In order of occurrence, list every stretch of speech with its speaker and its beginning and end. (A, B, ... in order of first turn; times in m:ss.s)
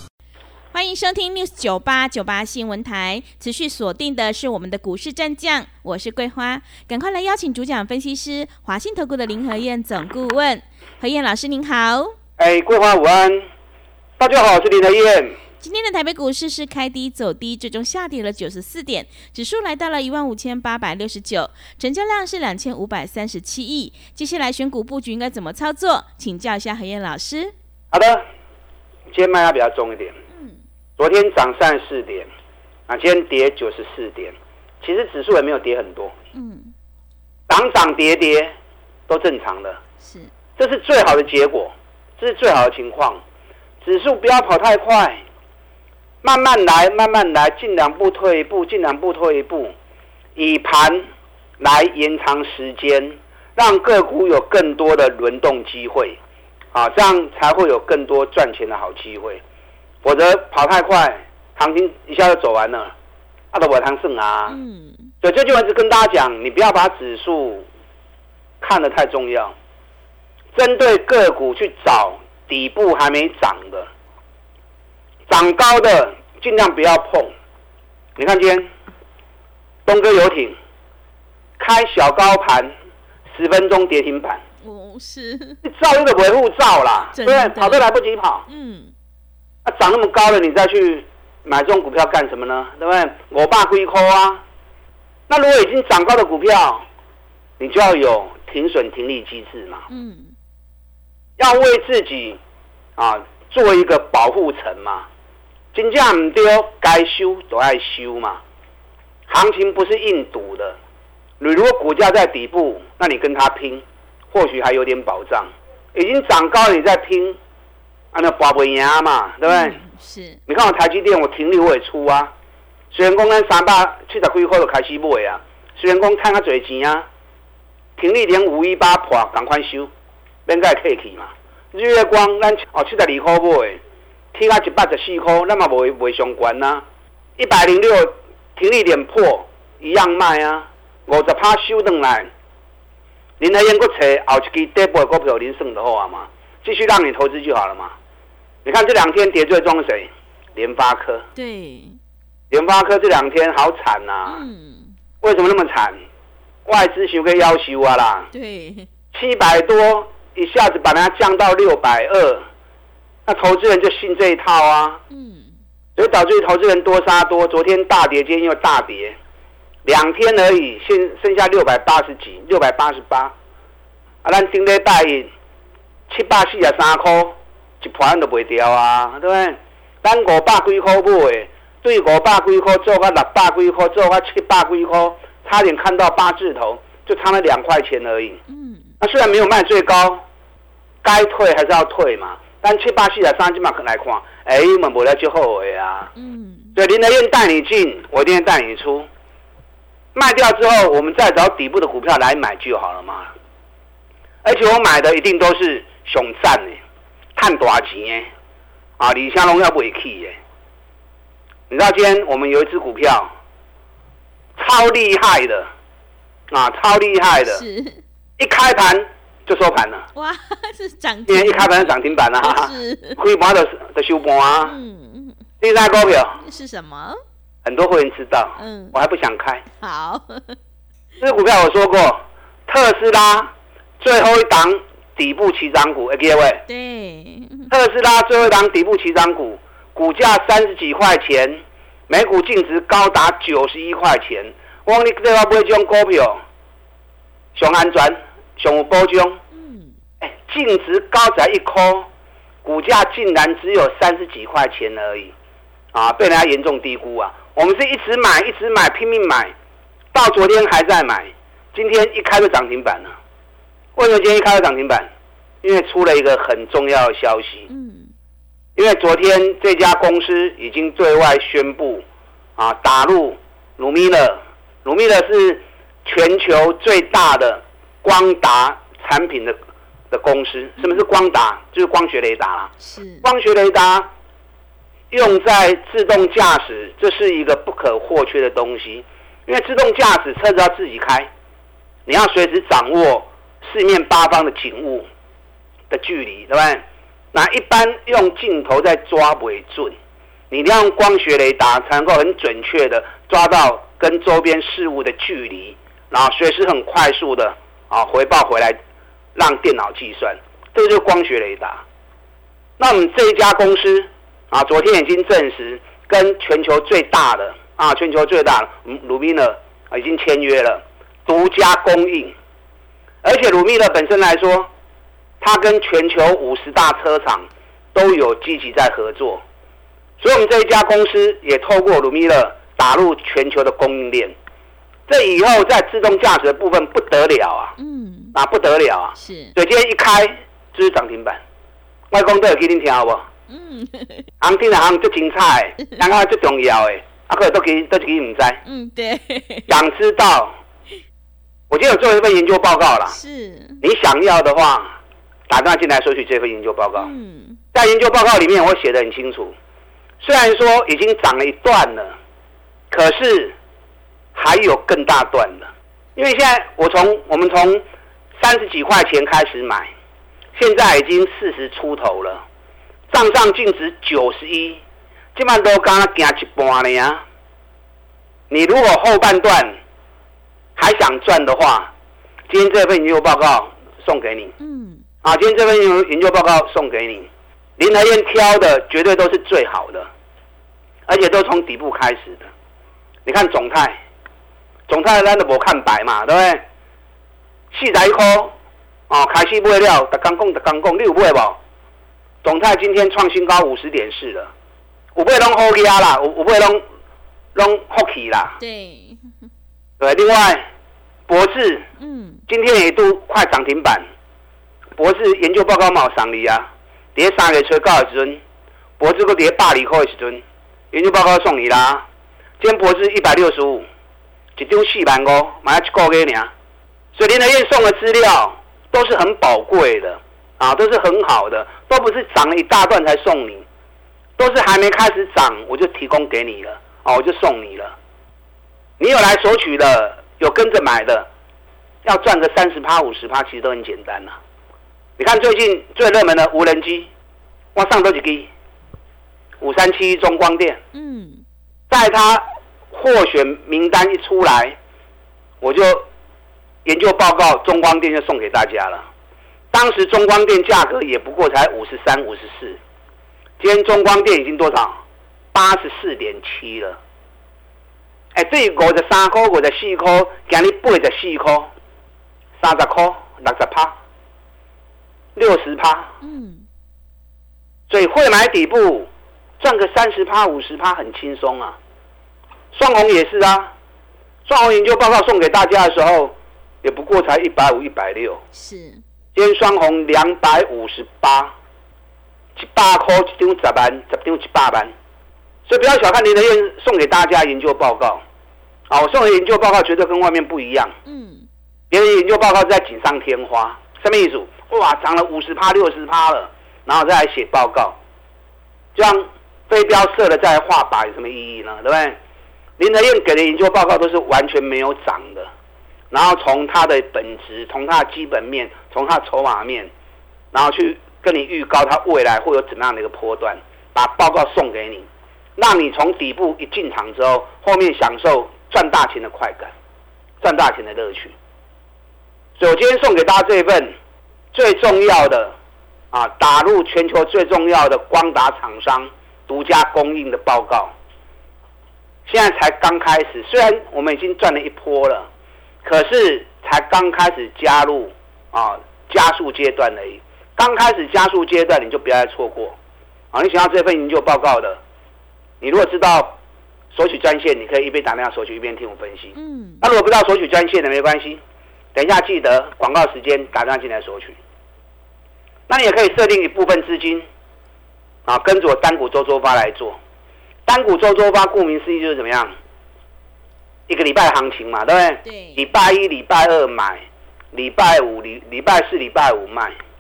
0:00.7-0:12.2 A
0:12.4-0:13.4 B
0:14.2-0:15.4 B
0:15.6-0:27.5 A
0:27.9-0:28.2 B
0:29.1-0:30.2 B
0:30.3-0:30.6 A
0:31.0-0:32.3 B
0:32.9-0:36.1 B
0:36.3-0:36.7 A
0:37.5-0:38.5 B
0:39.1-0:39.8 B
0:40.0-0:40.3 A
0:40.6-0:43.2 B
0:43.8-0:45.2 B
0:46.2-0:49.7 B
0:50.4-0:51.0 B
0:51.6-0:56.2 B
0:56.7-0:59.4 B
1:00.0-1:02.9 B
1:03.5-1:04.6 B
1:04.5-1:05.1 A
1:05.2-1:07.7 B
1:08.6-1:09.5 B
1:10.5-1:13.9 B
1:15.3-1:17.3 B
1:18.2-1:18.7 B
1:19.8-1:20.5 B
1:21.6-1:22.7 B
1:23.3-1:24.4 B
1:24.6-1:25.6 A
1:25.6-1:28.4 B
1:27.1-1:27.8 A
1:28.5-1:28.9 A
1:29.6-1:34.4 B
1:35.3-1:36.8 B
1:37.6-1:39.8 B
1:39.9-1:40.3 A
1:41.4-1:42.4 B
1:43.0-1:45.1 B
1:45.7-1:48.4 B
1:49.3-1:50.8 B
1:51.4-1:57.4 B
1:58.1-1:59.8 B
1:59.4-2:00.4 A
2:00.5-2:02.3 B
2:02.9-2:07.0 B
2:08.0-2:09.9 B
2:10.5-2:13.8 B
2:14.3-2:16.8 B
2:17.4-2:22.3 B
2:23.4-2:27.9 B
2:28.6-2:31.2 B
2:31.3-2:32.0 A
2:32.5-2:34.4 B
2:34.3-2:34.9 A
2:35.2-2:36.0 B
2:36.6-2:38.3 B
2:38.3-2:38.9 A
2:39.1-2:42.4 B
2:43.2-2:45.0 B
2:45.1-2:45.5 A
2:46.0-2:49.2 B
2:49.8-2:53.3 B
2:54.2-2:55.3 B
2:56.1-3:08.4 B
3:08.5-3:08.8 A
3:09.0-3:10.2 B
3:11.0-3:16.1 B
3:16.2-3:16.7 A
3:16.7-3:19.1 B
3:20.1-3:23.3 B
3:24.4-3:26.8 B
3:27.4-3:28.3 B
3:29.0-3:30.4 B
3:31.7-3:33.3 B
3:34.6-3:35.7 B
3:36.5-3:37.6 B
3:37.4-3:38.0 A
3:38.4-3:40.0 B
3:40.1-3:43.2 A
3:41.3-3:44.7 B
3:44.6-3:45.4 A
3:45.6-3:46.4 B
3:46.4-3:47.2 A
3:47.6-3:49.6 B
3:48.6-3:48.9 A
3:49.8-3:50.6 A
3:51.2-3:56.6 B
3:56.7-3:57.7 A
3:57.7-4:06.4 B
4:07.5-4:09.4 B
4:09.5-4:09.9 A
4:10.2-4:12.1 B
4:12.6-4:15.3 B
4:15.9-4:19.5 B
4:20.1-4:23.1 B
4:24.0-4:25.1 B
4:25.6-4:27.7 B
4:27.7-4:28.1 A
4:28.8-4:32.0 B
4:32.6-4:39.6 B
4:40.1-4:42.7 B
4:42.8-4:43.3 A
4:43.2-4:44.1 B
4:45.1-4:51.3 B
4:52.1-4:55.0 B
4:55.9-4:59.9 B
5:00.5-5:08.8 B
5:09.3-5:11.8 B
5:12.8-5:22.3 B
5:23.2-5:24.7 B
5:25.4-5:29.4 B
5:30.2-5:34.3 B
5:35.1-5:37.8 B
5:37.8-5:38.3 A
5:38.3-5:41.4 B
5:39.2-5:39.5 A
5:42.1-5:43.2 B
5:43.5-5:44.3 A
5:44.4-5:48.6 B
5:48.6-5:49.8 A
5:49.7-5:50.5 B
5:51.7-5:53.2 B
5:53.1-5:53.8 A
5:53.8-5:54.9 B
5:55.5-5:57.1 B
5:57.0-5:57.6 A
5:57.7-5:59.5 B
6:00.2-6:02.1 B
6:02.9-6:03.5 B
6:04.3-6:07.8 B
6:08.4-6:09.9 B
6:10.5-6:12.4 B
6:13.1-6:14.8 B
6:15.3-6:17.2 B
6:18.5-6:19.8 B
6:20.8-6:21.9 B
6:22.5-6:24.5 B
6:24.6-6:25.0 A
6:25.2-6:30.1 B
6:31.1-6:32.5 B
6:33.2-6:34.0 B
6:34.9-6:36.6 B
6:37.7-6:38.5 B
6:39.1-6:41.6 B
6:42.4-6:44.5 B
6:45.2-6:46.8 B
6:47.5-6:48.6 B
6:48.6-6:49.3 A
6:50.0-6:50.6 B
6:51.3-6:51.9 B
6:52.0-6:52.4 A
6:52.5-6:54.0 B
6:55.0-6:58.4 B
6:59.0-7:02.0 B
7:02.6-7:03.8 B
7:04.6-7:06.5 B
7:07.1-7:13.6 B
7:14.4-7:17.9 B
7:19.0-7:21.3 B
7:22.0-7:24.3 B
7:25.2-7:27.1 B
7:27.7-7:28.5 B
7:29.6-7:30.8 B
7:30.9-7:31.4 A
7:31.9-7:34.8 B
7:35.6-7:36.0 B
7:36.8-7:39.1 B
7:39.7-7:42.8 B
7:43.6-7:45.0 B
7:45.5-7:47.0 B
7:48.3-7:51.7 B
7:52.6-7:53.9 B
7:55.3-7:56.1 B
7:56.2-7:56.6 A
7:57.9-7:59.1 B
7:59.6-8:01.8 B
8:02.7-8:03.7 B
8:04.4-8:08.4 B
8:08.5-8:09.0 A
8:09.3-8:11.5 B
8:12.6-8:14.9 B
8:15.7-8:18.2 B
8:18.9-8:20.9 B
8:21.0-8:21.5 A
8:21.9-8:28.0 B
8:28.9-8:32.2 B
8:32.8-8:35.5 B
8:36.1-8:39.9 B
8:40.5-8:49.7 B
8:50.4-8:51.3 B
8:52.6-8:53.9 B
8:54.5-8:55.5 B
8:56.1-9:00.9 B
9:02.3-9:05.3 B
9:05.8-9:12.8 B
9:13.3-9:14.8 B
9:15.6-9:16.4 B
9:16.9-9:21.4 B
9:19.3-9:19.8 A
9:21.9-9:24.4 B
9:25.7-9:27.2 B
9:28.2-9:30.0 B
9:30.7-9:32.5 B
9:33.9-9:39.7 B
9:35.2-9:35.6 A